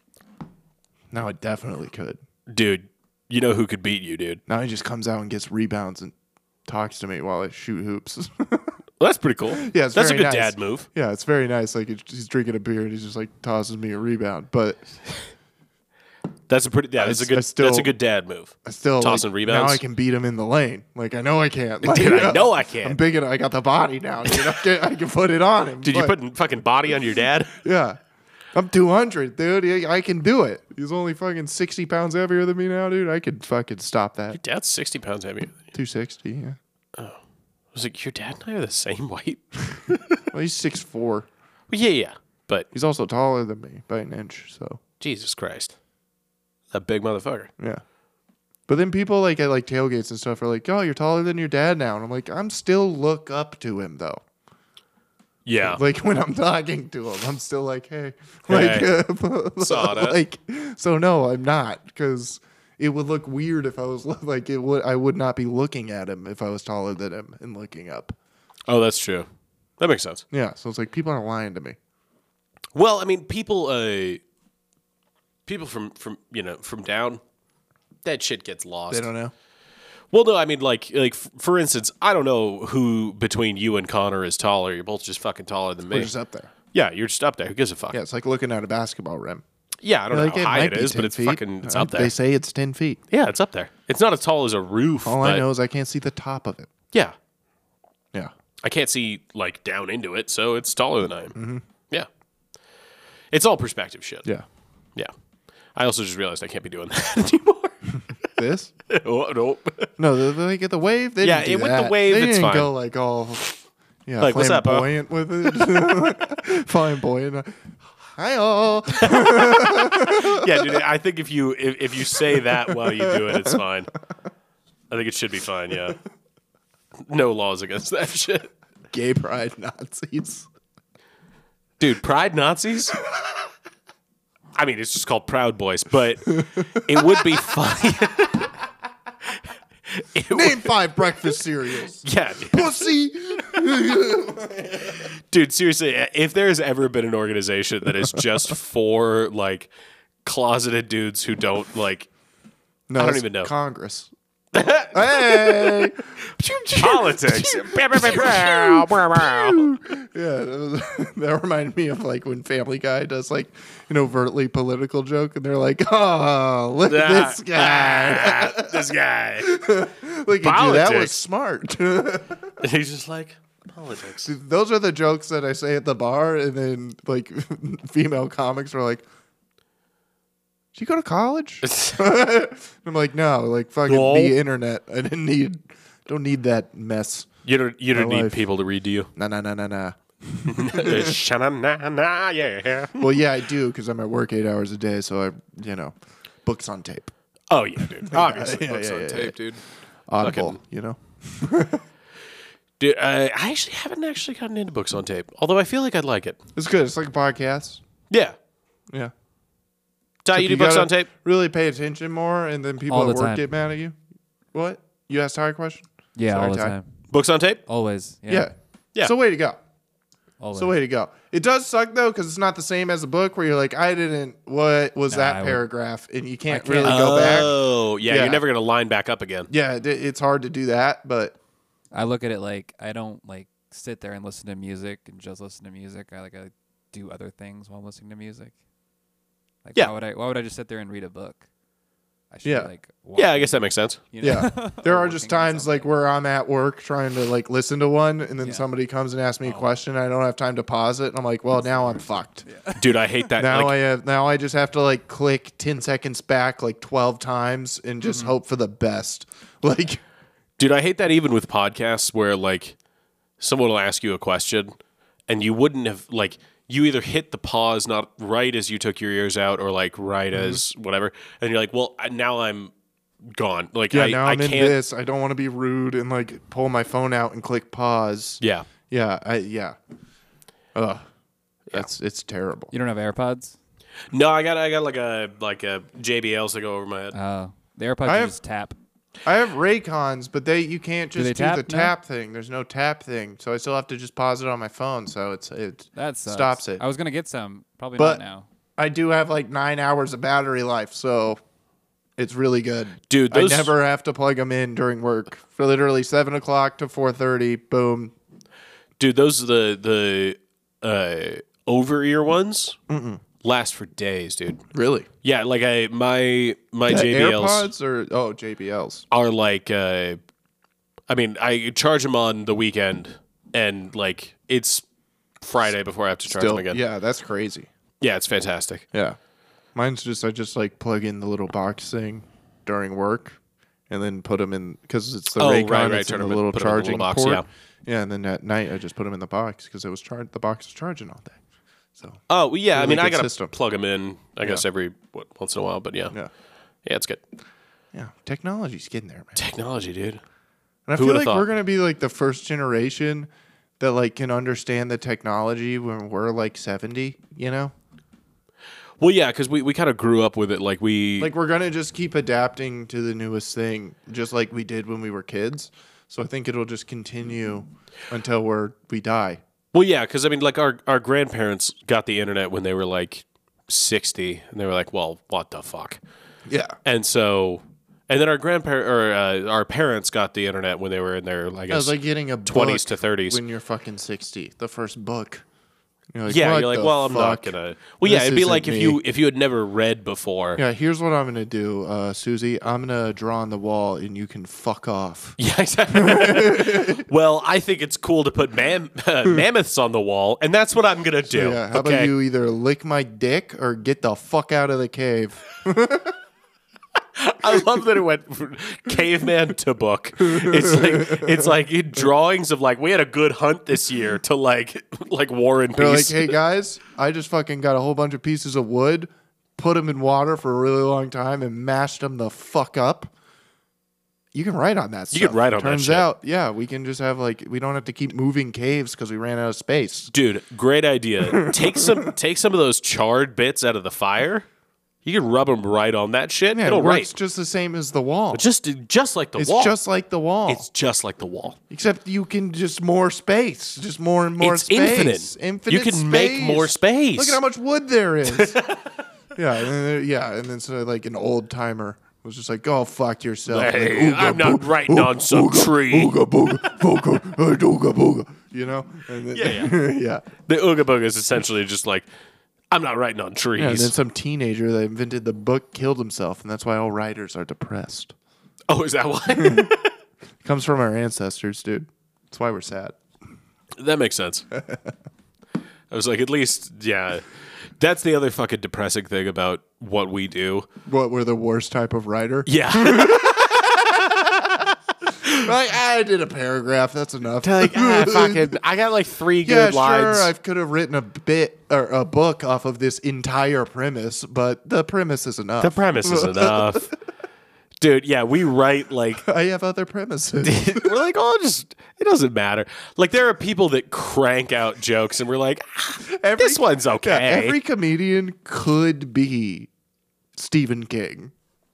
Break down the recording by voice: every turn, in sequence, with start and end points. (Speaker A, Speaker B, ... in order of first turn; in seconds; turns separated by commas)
Speaker A: 1.1-2.2, Speaker B: 2.5-4.4, Speaker A: 4.5-6.1, Speaker A: 6.7-8.7, Speaker B: 9.0-10.9, Speaker A: 9.6-14.8, Speaker B: 16.5-19.8, Speaker A: 17.0-17.9, Speaker A: 18.6-26.1, Speaker B: 21.8-23.0, Speaker B: 24.3-24.6, Speaker B: 25.8-27.6, Speaker A: 27.6-28.0, Speaker A: 28.5-34.4, Speaker B: 34.3-35.7, Speaker A: 35.7-36.6, Speaker B: 37.7-40.2, Speaker A: 40.3-41.3, Speaker B: 41.7-42.7, Speaker A: 42.7-44.8, Speaker B: 45.0-45.7, Speaker B: 46.7-47.5, Speaker A: 48.7-54.2, Speaker B: 55.5-55.8, Speaker A: 55.6-68.1, Speaker B: 58.5-58.9, Speaker B: 59.6-60.2, Speaker B: 68.7-69.2, Speaker B: 69.8-70.2, Speaker A: 70.3-71.8, Speaker B: 72.7-74.2, Speaker B: 75.5-77.2, Speaker B: 78.0-79.1, Speaker A: 78.9-79.3, Speaker B: 80.1-86.1, Speaker A: 85.9-86.5, Speaker B: 86.7-88.0, Speaker A: 87.9-89.4, Speaker B: 89.8-92.1, Speaker A: 90.1-93.0, Speaker B: 93.1-95.4, Speaker A: 95.0-96.7, Speaker B: 98.6-101.3, Speaker A: 101.3-101.6, Speaker B: 103.3-104.2, Speaker B: 105.8-107.8, Speaker A: 108.3-108.7, Speaker B: 108.9-109.9, Speaker A: 110.0-113.4, Speaker B: 111.2-112.7, Speaker A: 114.0-117.5, Speaker B: 114.2-114.9, Speaker A: 118.2-120.7, Speaker B: 119.0-123.9, Speaker A: 122.3-123.5, Speaker B: 124.9-126.0, Speaker B: 127.1-128.5, Speaker A: 128.9-130.4, Speaker B: 131.8-133.0, Speaker B: 134.5-138.5, Speaker A: 136.3-137.2, Speaker B: 139.9-140.7, Speaker A: 140.3-145.0, Speaker B: 142.0-142.9, Speaker B: 145.3-149.7, Speaker B: 150.2-152.1, Speaker A: 152.9-154.1, Speaker B: 153.0-153.5, Speaker B: 154.5-155.9, Speaker A: 154.9-168.9, Speaker B: 156.8-159.7, Speaker B: 166.9-169.6, Speaker A: 169.4-172.4, Speaker B: 170.4-171.2, Speaker B: 172.6-174.3, Speaker A: 174.2-179.0, Speaker A: 180.7-187.3, Speaker B: 181.6-182.1, Speaker B: 183.9-184.4, Speaker B: 187.4-189.1, Speaker A: 187.9-188.4, Speaker A: 189.1-191.2, Speaker B: 190.5-193.1, Speaker A: 193.0-195.9, Speaker A: 196.4-197.1, Speaker B: 197.5-199.6, Speaker A: 198.1-199.3, Speaker A: 200.1-201.8, Speaker B: 200.2-200.6, Speaker B: 202.8-206.4, Speaker A: 206.5-207.8, Speaker B: 208.1-208.3, Speaker B: 210.2-211.1, Speaker A: 210.3-213.9, Speaker C: 212.9-213.4, Speaker A: 214.5-216.7, Speaker C: 216.2-217.0, Speaker B: 217.1-217.6, Speaker C: 217.7-218.5, Speaker A: 218.3-219.6, Speaker C: 220.4-220.8, Speaker A: 220.5-227.6, Speaker C: 225.1-225.6, Speaker C: 226.5-227.4, Speaker B: 226.8-229.5, Speaker A: 228.1-228.4, Speaker A: 229.5-231.3, Speaker C: 231.9-238.5, Speaker C: 239.6-241.4, Speaker C: 242.3-245.9, Speaker A: 242.4-242.7, Speaker B: 243.1-244.0, Speaker A: 244.2-252.4, Speaker C: 248.4-248.7, Speaker C: 251.6-253.3, Speaker B: 252.8-253.8, Speaker A: 253.4-260.0, Speaker C: 258.1-258.3, Speaker B: 260.6-262.7, Speaker B: 263.4-264.7, Speaker B: 265.3-272.7, Speaker A: 270.3-270.6, Speaker B: 273.3-274.8, Speaker A: 273.9-279.8, Speaker B: 278.4-278.7, Speaker A: 280.7-281.1, Speaker A: 281.7-282.7, Speaker C: 282.7-283.6, Speaker B: 284.1-287.1, Speaker C: 287.1-288.8, Speaker A: 288.0-288.3, Speaker A: 289.2-296.8, Speaker C: 291.1-291.9, Speaker C: 295.9-298.5, Speaker A: 298.8-301.4, Speaker A: 302.2-308.1, Speaker B: 303.1-303.8, Speaker B: 309.0-312.8, Speaker A: 312.9-313.2, Speaker B: 313.4-314.6, Speaker A: 314.7-315.1, Speaker B: 315.2-317.7, Speaker A: 316.9-319.0, Speaker B: 319.1-320.2, Speaker B: 321.1-324.8, Speaker B: 325.4-326.8, Speaker A: 326.3-327.7, Speaker B: 328.0-328.8, Speaker A: 329.7-333.4, Speaker A: 333.9-341.4, Speaker B: 335.4-337.4, Speaker A: 342.0-343.5, Speaker B: 342.3-346.1, Speaker B: 346.8-347.2, Speaker A: 347.9-349.4, Speaker B: 349.4-350.2, Speaker A: 350.9-353.3, Speaker B: 351.0-351.5, Speaker A: 353.8-357.7, Speaker B: 359.0-361.3, Speaker A: 361.2-369.4, Speaker B: 369.7-376.0, Speaker A: 376.5-376.8, Speaker B: 376.8-381.9, Speaker A: 381.7-385.4, Speaker B: 382.4-383.4, Speaker A: 386.1-389.0, Speaker B: 386.3-390.6, Speaker A: 390.6-395.4, Speaker B: 395.4-402.1, Speaker A: 395.9-397.0, Speaker A: 401.3-406.1, Speaker B: 407.2-416.3, Speaker A: 410.2-411.5, Speaker A: 415.8-423.1, Speaker A: 424.3-430.1, Speaker B: 425.1-426.1, Speaker B: 430.1-434.4, Speaker A: 431.4-432.1, Speaker B: 435.0-437.1, Speaker A: 436.5-438.4, Speaker B: 438.3-439.8, Speaker A: 439.4-440.6, Speaker B: 440.5-441.6, Speaker A: 441.7-448.6, Speaker B: 444.4-447.4, Speaker B: 448.3-448.9, Speaker A: 449.3-460.2, Speaker B: 453.5-456.8, Speaker B: 459.3-459.8, Speaker B: 460.4-462.1, Speaker B: 462.7-463.9, Speaker A: 463.6-468.1, Speaker B: 468.7-469.9, Speaker A: 469.4-469.7, Speaker A: 470.4-472.9, Speaker B: 473.8-474.4, Speaker B: 475.9-480.7, Speaker A: 480.9-484.1, Speaker B: 482.4-484.6, Speaker A: 485.2-488.6, Speaker B: 487.4-490.3, Speaker A: 489.4-496.9, Speaker B: 495.6-496.9, Speaker B: 497.8-499.2, Speaker A: 499.2-500.9, Speaker B: 500.4-507.6, Speaker A: 506.1-509.7, Speaker A: 510.4-511.3